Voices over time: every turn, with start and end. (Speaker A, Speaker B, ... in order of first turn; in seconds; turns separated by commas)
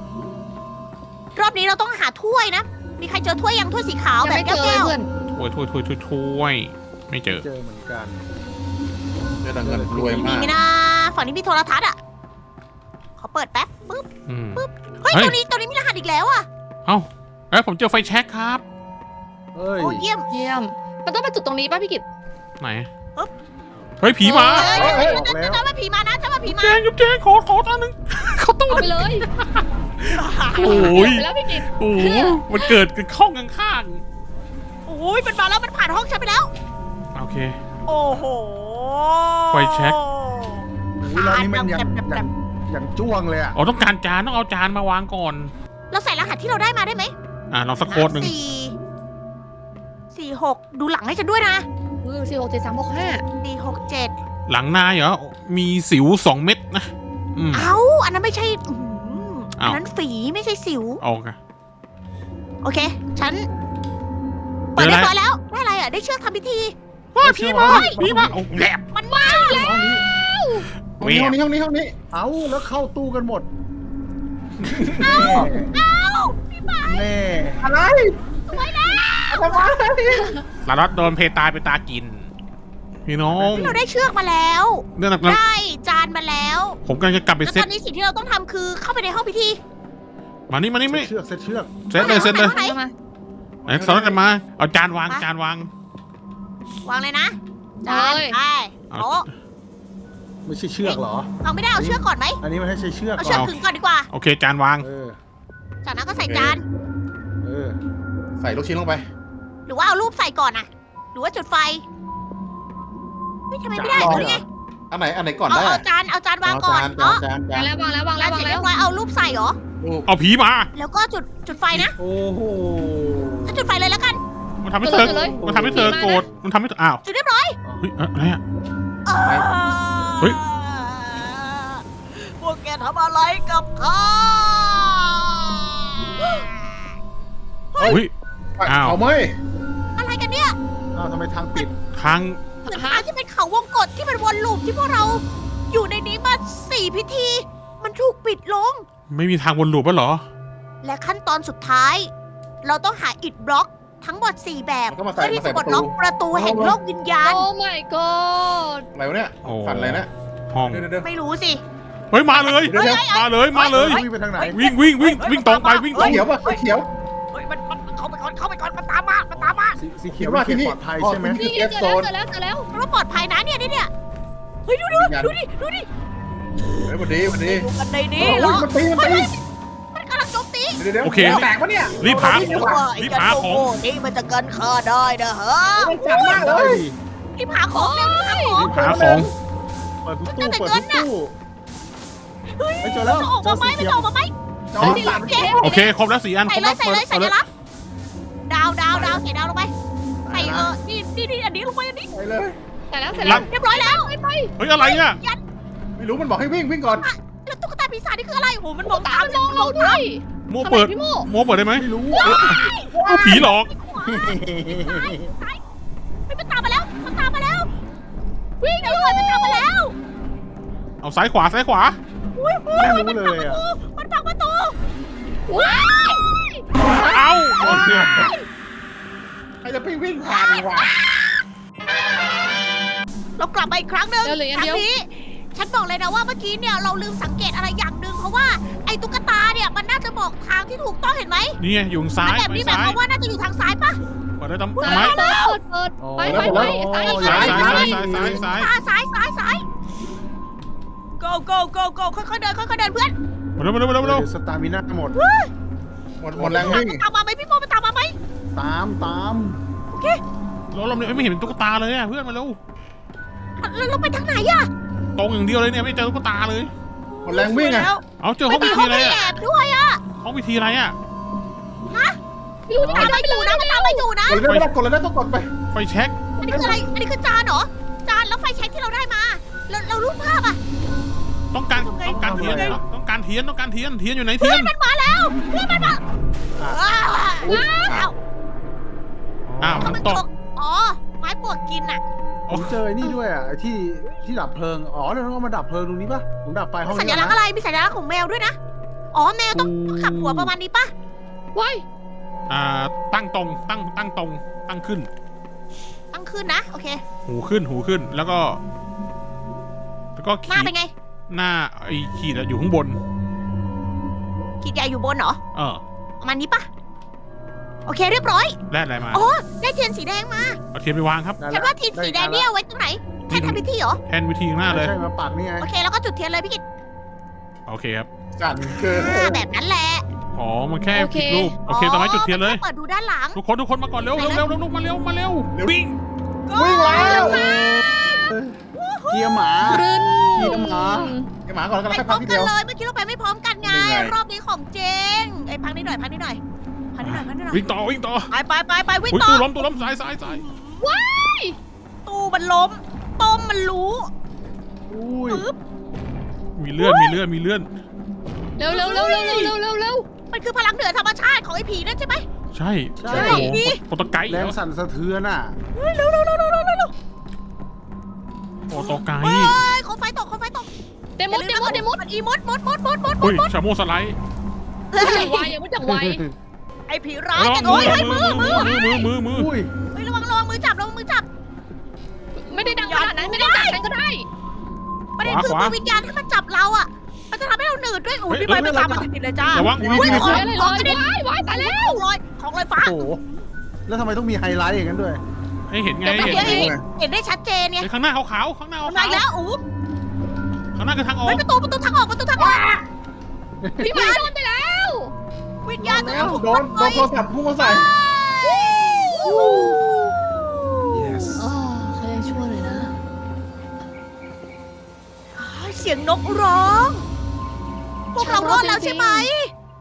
Speaker A: 1.4-4.9, Speaker B: 4.2-5.1, Speaker C: 5.3-7.5, Speaker D: 7.4-8.2, Speaker E: 9.4-10.5, Speaker D: 9.6-10.4, Speaker A: 10.1-11.9, Speaker A: 13.2-16.5, Speaker C: 14.3-15.3, Speaker C: 16.9-18.6, Speaker D: 19.5-20.1, Speaker A: 19.8-20.3, Speaker B: 20.3-22.0, Speaker C: 22.6-22.9, Speaker C: 24.0-24.8, Speaker B: 24.2-24.8, Speaker A: 24.5-26.8, Speaker E: 24.7-25.2, Speaker D: 24.7-25.6, Speaker C: 26.4-34.0, Speaker B: 28.7-29.3, Speaker A: 30.1-31.1, Speaker B: 30.6-32.4, Speaker A: 34.9-36.5, Speaker C: 37.1-37.6, Speaker A: 37.9-42.3, Speaker C: 39.5-40.0, Speaker D: 41.0-43.6, Speaker C: 43.5-45.5, Speaker A: 45.9-47.1, Speaker C: 47.5-48.3, Speaker A: 47.9-48.8, Speaker A: 50.1-51.6, Speaker B: 52.0-53.2, Speaker A: 53.4-54.1, Speaker C: 54.5-57.7, Speaker A: 57.5-61.0, Speaker C: 61.0-61.4, Speaker A: 62.6-63.5, Speaker A: 64.7-66.7, Speaker C: 64.8-65.1, Speaker C: 67.1-68.8, Speaker D: 67.2-68.4, Speaker A: 67.6-67.9, Speaker A: 68.9-69.7, Speaker B: 69.1-70.7, Speaker D: 69.5-70.0, Speaker C: 71.0-71.4, Speaker E: 71.0-72.0, Speaker D: 72.1-73.5, Speaker E: 74.6-75.5, Speaker D: 74.9-75.8, Speaker A: 75.0-77.1, Speaker D: 76.8-77.7, Speaker E: 77.6-78.6, Speaker A: 78.5-79.8, Speaker E: 79.3-80.3, Speaker C: 80.7-82.3, Speaker C: 83.0-83.8, Speaker D: 83.3-83.8, Speaker A: 83.5-86.8, Speaker C: 85.0-85.4, Speaker C: 86.8-87.7, Speaker A: 87.4-89.6, Speaker C: 90.5-91.1, Speaker D: 90.9-91.8, Speaker C: 91.9-92.6, Speaker A: 91.9-92.8, Speaker B: 92.0-92.9, Speaker D: 93.7-94.2, Speaker C: 93.7-95.7, Speaker A: 96.8-99.2, Speaker B: 97.9-98.4, Speaker C: 98.9-99.3, Speaker D: 100.4-103.5, Speaker A: 100.8-102.4, Speaker A: 103.2-104.1, Speaker C: 103.2-103.6, Speaker C: 104.1-104.9, Speaker D: 104.8-105.2, Speaker A: 105.8-106.6, Speaker E: 106.2-106.6, Speaker D: 107.4-107.8, Speaker E: 108.4-109.0, Speaker A: 109.7-111.8, Speaker A: 113.5-114.4, Speaker D: 113.7-114.4, Speaker E: 114.0-114.3, Speaker E: 114.9-115.8, Speaker A: 115.5-117.2, Speaker E: 116.4-117.7, Speaker B: 117.5-118.7, Speaker A: 118.2-119.6, Speaker E: 119.8-120.1, Speaker C: 120.1-120.7, Speaker A: 120.7-122.0, Speaker D: 122.0-123.7, Speaker A: 123.5-124.2, Speaker C: 124.6-127.0, Speaker B: 124.8-126.3, Speaker D: 125.1-126.4, Speaker A: 127.0-127.6, Speaker C: 127.8-128.4, Speaker A: 129.1-136.9, Speaker A: 137.7-138.0, Speaker E: 137.8-138.0, Speaker C: 137.8-138.1, Speaker E: 138.6-139.3, Speaker C: 138.6-139.0, Speaker A: 140.0-140.6, Speaker D: 140.9-141.7, Speaker C: 141.9-142.4, Speaker B: 142.7-143.1, Speaker A: 142.7-148.8, Speaker C: 149.1-150.2, Speaker A: 150.8-152.1, Speaker A: 152.6-157.4, Speaker E: 154.9-156.8, Speaker B: 157.2-158.8, Speaker E: 158.9-160.1, Speaker C: 159.4-160.8, Speaker E: 160.6-161.1, Speaker A: 161.0-161.6, Speaker C: 162.1-164.0, Speaker A: 162.4-166.6, Speaker E: 162.7-163.1, Speaker D: 163.7-164.6, Speaker C: 164.5-166.2, Speaker E: 165.9-166.9, Speaker A: 167.3-169.8, Speaker D: 169.3-171.4, Speaker E: 170.1-172.1, Speaker B: 171.3-172.7, Speaker A: 172.7-173.9, Speaker A: 174.7-175.9, Speaker E: 174.9-175.3, Speaker A: 176.6-179.4, Speaker E: 176.8-177.7, Speaker E: 178.2-179.3, Speaker A: 179.9-180.8, Speaker E: 180.8-182.8, Speaker C: 181.0-183.7, Speaker A: 182.0-186.4, Speaker E: 185.8-186.8, Speaker D: 186.1-187.0, Speaker A: 187.4-188.7, Speaker B: 187.7-188.6, Speaker D: 188.6-188.9, Speaker E: 188.6-189.3, Speaker C: 188.6-189.3, Speaker D: 190.0-191.3, Speaker A: 190.2-191.1, Speaker A: 192.6-194.3, Speaker D: 192.8-194.1, Speaker E: 194.7-195.9, Speaker B: 194.8-195.7, Speaker A: 194.8-195.6, Speaker C: 195.6-197.4, Speaker A: 196.5-197.4, Speaker A: 198.5-199.7, Speaker D: 198.9-199.2, Speaker D: 200.2-200.7, Speaker A: 200.3-202.1, Speaker E: 202.1-202.6, Speaker B: 202.9-204.5, Speaker C: 203.2-203.5, Speaker A: 203.2-204.1, Speaker C: 204.6-205.2, Speaker A: 204.8-205.4, Speaker E: 206.0-207.1, Speaker A: 206.9-210.0, Speaker B: 208.8-211.3, Speaker C: 210.5-211.9, Speaker D: 211.7-212.4, Speaker B: 212.1-212.7, Speaker A: 212.2-215.6, Speaker E: 212.3-212.6, Speaker C: 213.0-213.7, Speaker E: 213.1-213.4, Speaker D: 214.0-215.3, Speaker A: 216.3-217.7, Speaker B: 218.6-219.7, Speaker A: 218.8-219.9, Speaker C: 221.0-222.0, Speaker A: 222.3-224.8, Speaker D: 222.7-223.6, Speaker B: 225.5-226.6, Speaker A: 225.5-226.3, Speaker A: 226.9-228.4, Speaker C: 227.0-228.1, Speaker D: 227.6-228.3, Speaker E: 229.6-230.9, Speaker A: 230.2-231.3, Speaker A: 233.4-241.6, Speaker B: 234.2-234.9, Speaker C: 241.6-243.0, Speaker A: 242.2-244.0, Speaker C: 244.4-245.2, Speaker A: 244.8-245.6, Speaker B: 244.8-247.7, Speaker D: 246.0-248.5, Speaker E: 246.2-248.1, Speaker A: 247.1-249.6, Speaker C: 247.2-248.7, Speaker A: 251.2-253.1, Speaker C: 253.6-254.2, Speaker D: 254.0-255.2, Speaker A: 255.1-255.5, Speaker E: 256.2-257.0, Speaker D: 256.3-256.8, Speaker A: 256.5-258.1, Speaker D: 258.5-259.6, Speaker A: 259.9-260.2, Speaker C: 260.7-262.6, Speaker A: 263.6-264.7, Speaker C: 265.1-266.7, Speaker A: 267.1-270.0, Speaker E: 267.2-267.9, Speaker C: 268.2-269.2, Speaker B: 268.5-269.4, Speaker C: 270.2-270.9, Speaker A: 271.9-272.2, Speaker B: 272.7-274.1, Speaker A: 272.8-274.5, Speaker D: 272.8-273.1, Speaker E: 274.2-275.5, Speaker C: 274.4-274.7, Speaker C: 275.7-276.1, Speaker A: 276.4-280.6, Speaker E: 276.4-276.8, Speaker C: 281.5-284.7, Speaker A: 281.7-282.8, Speaker D: 282.1-282.8, Speaker A: 284.4-286.0, Speaker D: 286.6-287.6, Speaker A: 286.6-288.1, Speaker B: 287.5-287.9, Speaker E: 287.9-288.1, Speaker D: 289.5-290.0, Speaker C: 289.6-290.2, Speaker A: 289.8-292.0, Speaker C: 292.5-292.8, Speaker D: 292.5-297.4, Speaker A: 296.9-298.6, Speaker A: 299.1-300.9, Speaker D: 299.5-300.5, Speaker B: 301.5-301.8, Speaker C: 302.5-305.1, Speaker A: 306.1-307.0, Speaker C: 307.2-308.6, Speaker C: 310.1-310.7, Speaker A: 310.5-310.9, Speaker C: 311.3-313.0, Speaker A: 314.6-315.4, Speaker C: 315.5-315.8, Speaker A: 316.2-316.7, Speaker A: 317.9-318.6, Speaker C: 318.7-319.2, Speaker A: 319.1-320.6, Speaker C: 320.7-321.4, Speaker D: 321.4-322.5, Speaker A: 321.5-324.0, Speaker C: 323.3-324.9, Speaker D: 324.7-325.7, Speaker A: 325.6-326.6, Speaker C: 327.7-328.1, Speaker E: 328.4-329.4, Speaker A: 328.7-330.0, Speaker C: 330.3-332.6, Speaker B: 330.9-331.5, Speaker A: 331.7-333.4, Speaker C: 333.3-336.0, Speaker A: 334.1-334.4, Speaker A: 336.5-340.6, Speaker E: 336.5-337.6, Speaker B: 336.9-337.6, Speaker D: 337.1-339.9, Speaker B: 339.6-341.3, Speaker D: 340.4-341.1, Speaker E: 341.4-342.5, Speaker A: 341.9-346.4, Speaker E: 343.6-344.1, Speaker A: 346.9-347.6, Speaker C: 347.0-348.3, Speaker A: 348.3-349.7, Speaker C: 349.1-350.4, Speaker A: 350.2-351.1, Speaker B: 350.8-351.6, Speaker A: 352.1-354.1, Speaker D: 354.9-355.4, Speaker A: 355.3-355.6, Speaker C: 356.6-357.7, Speaker B: 356.8-357.1, Speaker B: 358.6-360.1, Speaker A: 358.7-359.5, Speaker A: 360.3-362.3, Speaker C: 362.5-364.6, Speaker D: 363.0-363.6, Speaker A: 363.1-363.8, Speaker D: 364.3-365.6, Speaker A: 365.7-366.9, Speaker C: 368.7-369.6, Speaker A: 368.7-370.7, Speaker B: 371.2-372.0, Speaker A: 371.3-373.5, Speaker C: 373.2-374.2, Speaker A: 374.9-375.5, Speaker B: 375.0-376.2, Speaker D: 375.8-376.3, Speaker A: 376.9-379.1, Speaker C: 377.3-379.5, Speaker D: 377.7-378.7, Speaker D: 379.3-379.7, Speaker A: 379.9-381.3, Speaker B: 382.4-384.3, Speaker A: 382.5-383.8, Speaker A: 385.2-393.3, Speaker C: 385.2-385.8, Speaker C: 388.3-388.6, Speaker D: 388.5-389.1, Speaker C: 389.5-390.4, Speaker E: 389.8-390.5, Speaker B: 389.9-392.0, Speaker D: 392.8-393.2, Speaker D: 393.9-395.2, Speaker C: 395.7-396.7, Speaker B: 396.0-396.7, Speaker A: 396.1-397.9, Speaker E: 396.3-396.8, Speaker C: 397.8-399.2, Speaker A: 398.8-399.6, Speaker C: 400.8-401.4, Speaker A: 401.2-402.8, Speaker E: 402.4-402.7, Speaker D: 403.6-404.1, Speaker B: 403.8-405.1, Speaker A: 403.9-404.3, Speaker A: 405.6-411.3, Speaker D: 405.8-406.4, Speaker E: 405.9-407.9, Speaker B: 409.2-409.8, Speaker D: 410.9-411.4, Speaker B: 411.4-412.9, Speaker A: 415.4-417.0, Speaker A: 418.1-419.5, Speaker B: 418.2-419.3